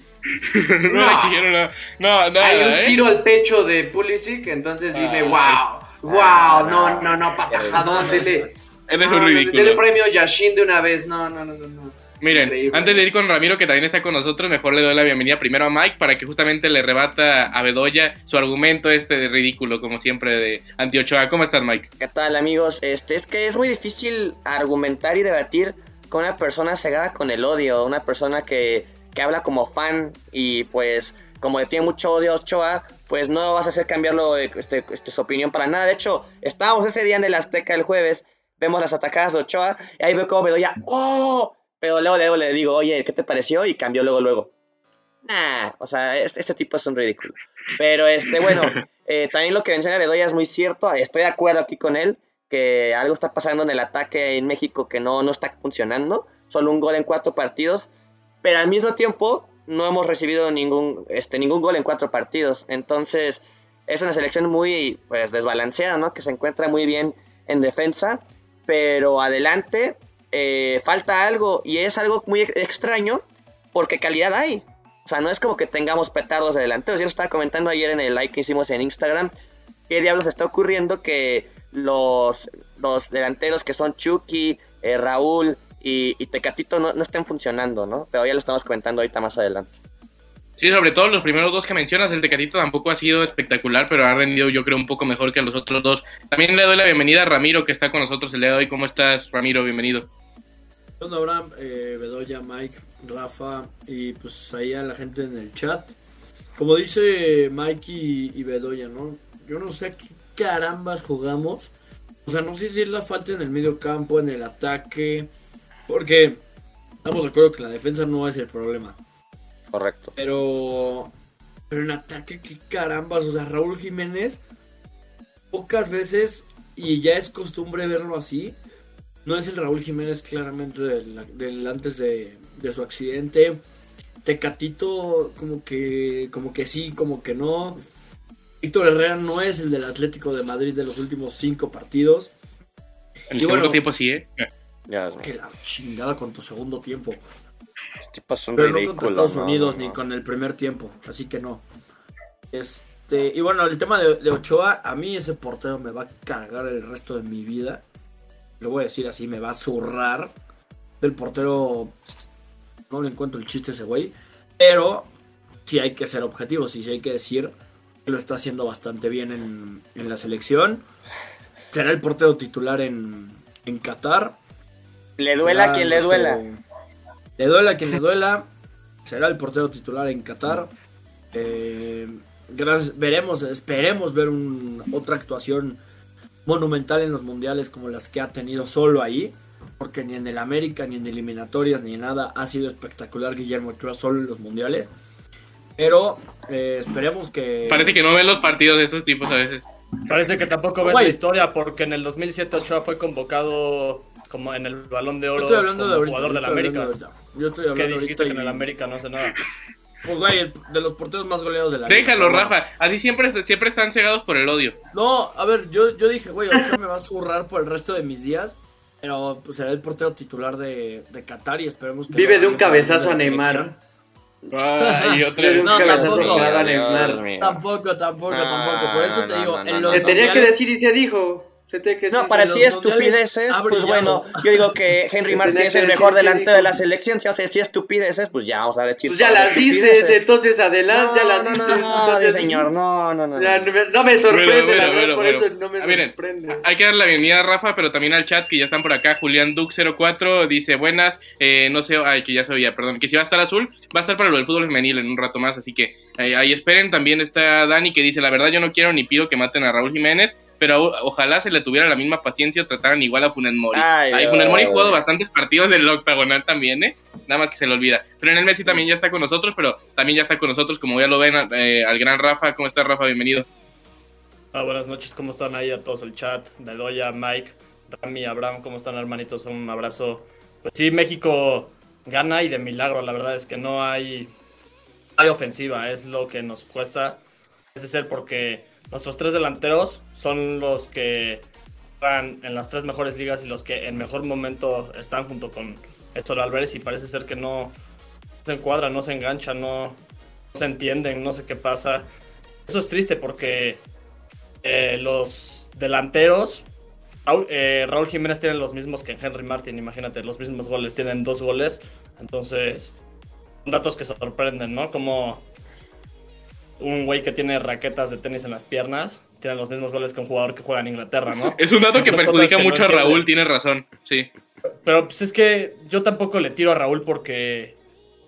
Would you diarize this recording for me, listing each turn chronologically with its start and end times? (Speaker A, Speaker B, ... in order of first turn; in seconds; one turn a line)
Speaker A: 0.4-3.0
Speaker B: 0.9-1.5
Speaker B: 2.4-13.0
Speaker A: 4.9-5.6
Speaker C: 6.0-8.1
Speaker A: 8.9-9.8
Speaker A: 12.2-21.9
Speaker C: 22.0-44.5
Speaker C: 45.2-57.9
Speaker C: 58.4-73.2
Speaker C: 73.7-79.3
Speaker C: 79.9-89.8
Speaker A: 90.6-100.1
Speaker D: 101.0-105.9
Speaker D: 106.5-111.7
Speaker D: 112.2-115.3
Speaker D: 115.9-116.4
Speaker D: 117.0-119.0
Speaker C: 119.7-120.1
Speaker D: 120.2-121.1
Speaker D: 121.7-124.4
Speaker D: 125.5-128.6
Speaker D: 129.2-133.6
Speaker D: 134.2-137.8
Speaker D: 138.6-142.3
Speaker D: 143.3-143.8
Speaker A: 143.3-144.5
Speaker C: 144.9-145.3
Speaker D: 145.2-147.2
Speaker C: 148.0-150.0
Speaker D: 148.5-151.6
Speaker D: 152.5-157.8
Speaker D: 158.6-160.3
Speaker D: 161.0-161.9
Speaker D: 162.9-165.1
Speaker D: 165.6-167.5
Speaker D: 168.0-170.8
Speaker D: 171.7-174.3
Speaker C: 175.2-176.4
Speaker D: 175.4-176.6
Speaker D: 177.4-178.5
Speaker D: 179.0-180.7
Speaker D: 181.3-185.8
Speaker D: 186.4-194.9
Speaker D: 195.8-197.9
Speaker A: 197.7-199.6
Speaker E: 200.1-206.9
Speaker D: 200.8-201.2
Speaker D: 205.3-208.7
Speaker E: 207.7-209.4
Speaker D: 210.0-212.6
Speaker A: 211.9-214.8
Speaker D: 214.9-223.8
Speaker B: 222.1-223.7
Speaker A: 224.5-226.3
Speaker D: 224.8-226.5
Speaker B: 225.4-227.2
Speaker C: 225.7-227.6
Speaker D: 227.4-230.6
Speaker C: 228.3-230.3
Speaker B: 229.9-232.7
Speaker C: 232.1-240.2
Speaker D: 232.5-234.7
Speaker B: 235.3-236.8
Speaker B: 239.1-242.7
Speaker D: 239.7-240.2
Speaker C: 240.9-243.7
Speaker B: 243.3-246.7
Speaker A: 244.3-273.5
Speaker C: 263.7-265.0
Speaker E: 274.5-284.3
Speaker E: 285.2-287.2
Speaker E: 287.7-291.4
Speaker E: 292.0-297.7
Speaker E: 298.4-300.0
Speaker E: 300.5-302.1
Speaker E: 302.7-303.8
Speaker E: 304.6-306.6
Speaker E: 307.2-312.9
Speaker E: 313.6-315.4
Speaker E: 316.8-323.2
Speaker A: 321.6-324.3
Speaker E: 324.8-327.8